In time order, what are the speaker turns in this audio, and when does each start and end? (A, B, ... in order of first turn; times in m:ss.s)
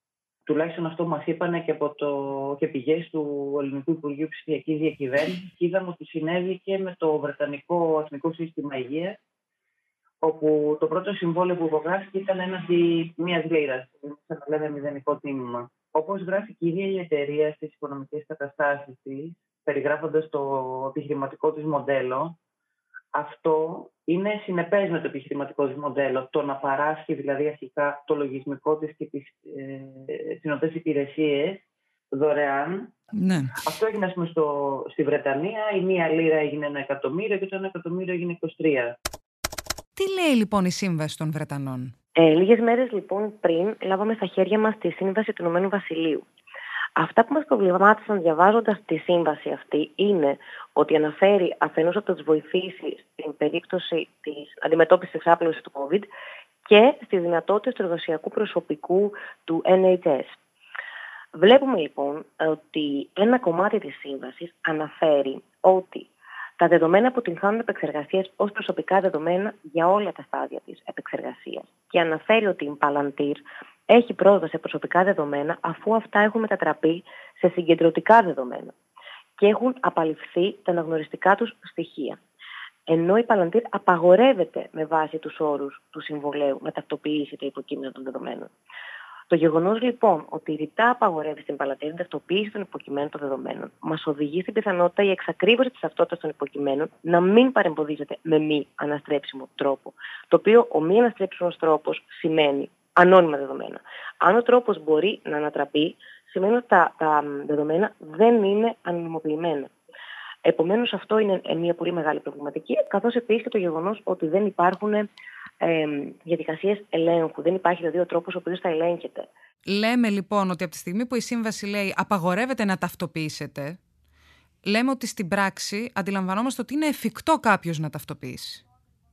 0:00.5-0:09.2 A
0:10.2-0:22.4 A
0:23.1-0:32.9 A
0:33.1-0:33.6 B
0:33.6-0:39.0 A
0:40.0-0:41.9 B
0:42.2-0:46.3 C
0:47.0-0:56.1 C
0:56.6-1:00.4 C
1:01.4-1:18.7 C
1:19.4-1:22.2 C
1:22.9-1:28.5 C
1:29.3-1:49.7 C
1:50.4-1:55.1 C
1:55.6-1:59.3 C
1:59.7-2:03.8 B
2:04.7-2:08.6 B